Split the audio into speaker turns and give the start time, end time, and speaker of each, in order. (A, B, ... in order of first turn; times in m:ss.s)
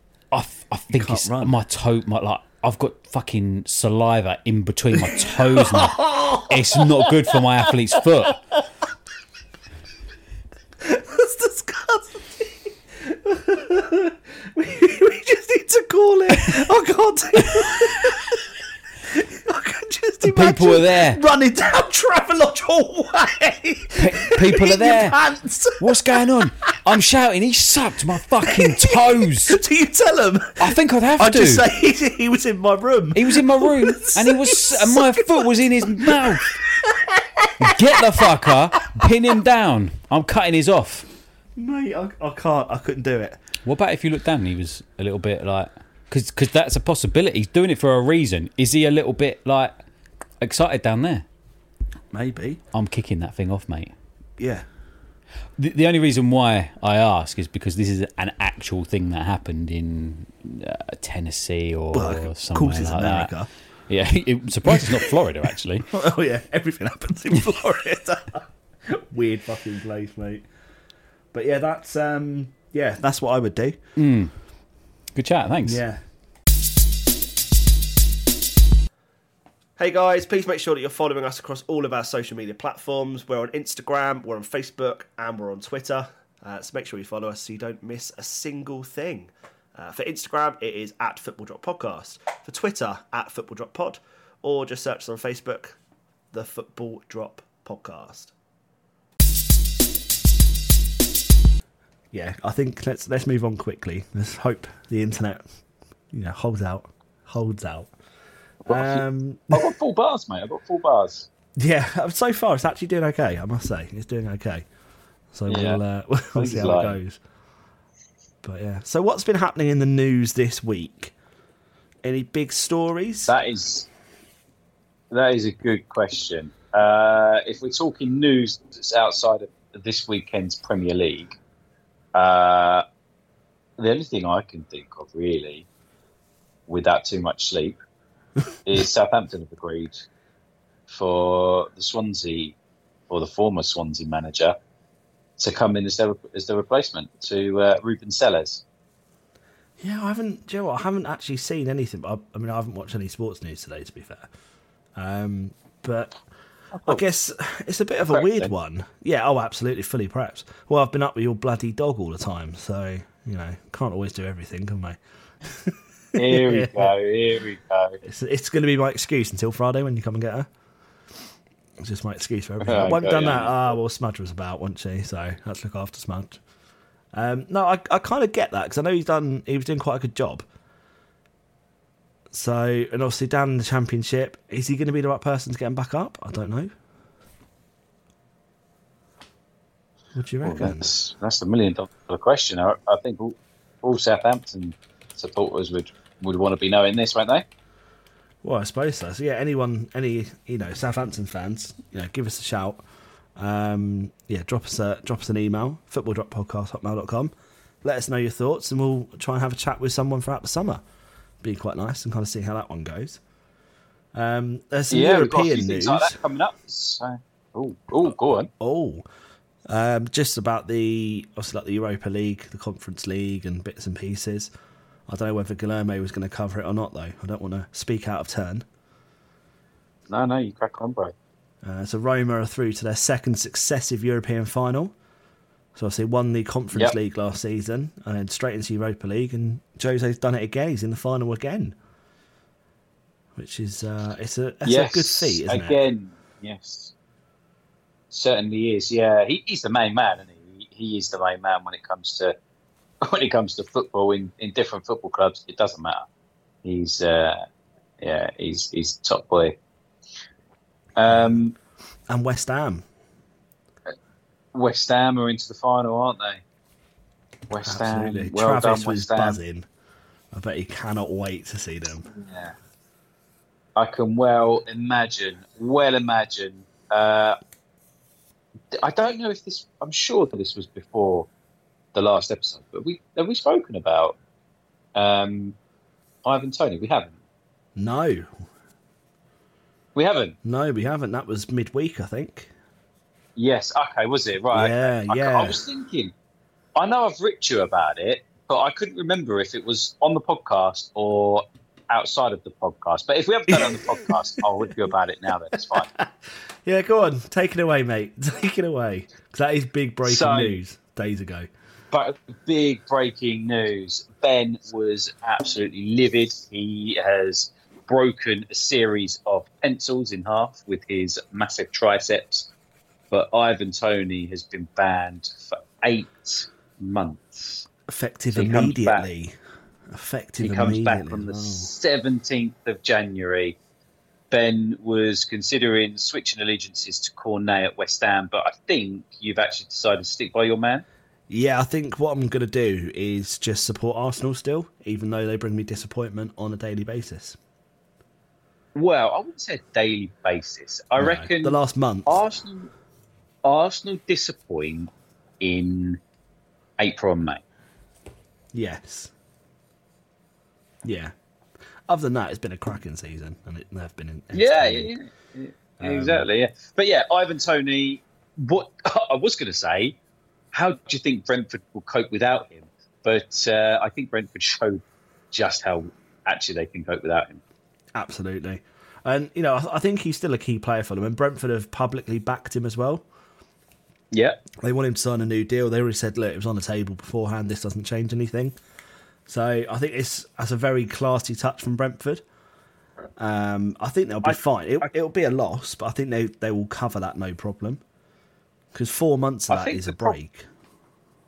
0:00.3-0:08.4 A
0:00.9-0:01.5 B
0:05.1-0:06.6 B
0:10.8-0:18.4 B
0:17.5-0:17.9 A
0:19.1-0:26.1 B
0:20.2-0:21.2 A
0:24.0-0:25.2 A
0:25.8-0:29.6 A
0:28.4-0:39.1 B
0:30.6-0:31.6 A
0:33.1-0:36.6 A
0:37.6-0:41.1 A
0:41.6-0:43.4 B
0:43.6-0:49.7 A
0:50.4-0:51.2 A
0:52.1-0:52.6 B
0:52.7-0:53.9 A
0:54.4-0:54.7 B
0:55.6-1:03.3 A
1:01.9-1:03.5 B
1:03.9-1:05.9 A
1:04.6-1:05.1 B
1:05.9-1:10.5 B
1:11.3-1:13.8 B
1:14.0-1:14.3 A
1:15.1-1:15.8 A
1:15.6-1:16.0 B
1:19.8-1:35.8 B
1:36.3-1:38.3 B
1:42.1-1:45.5 B
1:46.1-1:47.9 B
1:48.6-1:51.3 C
1:48.7-1:49.7 B
1:51.6-1:54.6 B
1:55.3-1:57.2 B
1:55.5-1:55.8 C
1:56.4-1:57.0 C
1:58.4-2:01.1 B
2:02.0-2:03.3 B
2:03.3-2:03.9 C
2:05.1-2:11.4 C
2:12.1-2:12.8 C
2:13.8-2:15.6 C
2:16.7-2:17.8 C
2:18.6-2:20.0 C
2:20.9-2:22.6 C
2:23.1-2:24.6 C
2:25.4-2:28.6 C
2:29.8-2:34.3 B
2:35.0-2:36.2 B
2:36.7-2:37.0 C
2:36.8-2:46.9 B
2:38.1-2:38.5 C
2:46.2-2:48.0 C
2:48.0-2:50.5 B
2:51.8-2:56.4 B
2:52.6-2:53.8 C
2:57.1-3:00.4 B
3:02.3-3:06.7 B
3:10.1-3:10.9 B
3:10.4-3:17.4 C
3:18.4-3:22.8 B
3:23.4-3:27.3 B
3:27.8-3:30.8 B
3:31.4-3:33.2 B
3:34.1-3:36.2 B
3:34.9-3:38.5 C
3:38.0-3:39.0 B
3:39.7-3:44.5 B
3:45.1-3:48.6 B
3:50.1-3:51.1 C
3:51.6-3:54.9 B
3:55.7-4:01.8 B
4:03.4-4:05.8 B
4:04.6-4:06.9 C
4:08.1-4:12.3 C
4:13.0-4:16.1 C
4:16.6-4:17.4 C
4:18.0-4:19.6 C
4:21.0-4:21.6 C
4:21.0-4:21.4 B
4:22.1-4:22.8 B
4:24.5-4:26.4 C
4:27.5-4:29.4 C
4:27.6-4:29.7 B
4:30.3-4:32.1 B
4:32.1-4:32.5 C
4:33.8-4:37.4 C
4:38.7-4:41.3 C
4:41.9-4:44.2 C
4:44.9-4:45.6 C
4:46.2-4:47.2 C
4:47.8-4:48.4 B
4:49.9-4:50.4 C
4:50.4-4:52.5 B
4:53.4-4:56.1 C
4:54.5-4:55.6 B
4:56.8-5:05.9 C
5:03.5-5:04.2 B
5:05.7-5:06.1 B
5:06.6-5:11.5 B
5:10.0-5:10.6 C
5:11.9-5:22.5 C
5:23.1-5:27.6 C
5:27.9-5:29.4 B
5:28.3-5:29.1 C
5:29.9-5:31.7 B
5:30.4-5:33.6 C
5:34.3-5:40.8 C
5:41.3-5:47.4 B
5:48.7-5:52.7 C
5:51.0-5:52.2 B
5:53.4-5:56.0 C
5:56.8-5:57.4 C
5:58.5-5:59.1 B
6:00.8-6:01.1 B
6:01.9-6:04.9 B
6:04.3-6:10.0 C
6:05.8-6:06.3 B
6:10.5-6:17.4 C
6:17.9-6:23.0 B
6:24.1-6:24.4 C
6:24.6-6:28.6 B
6:29.3-6:32.2 B
6:33.2-6:37.8 B
6:34.2-6:34.8 C
6:38.7-6:40.5 B
6:39.5-6:40.2 C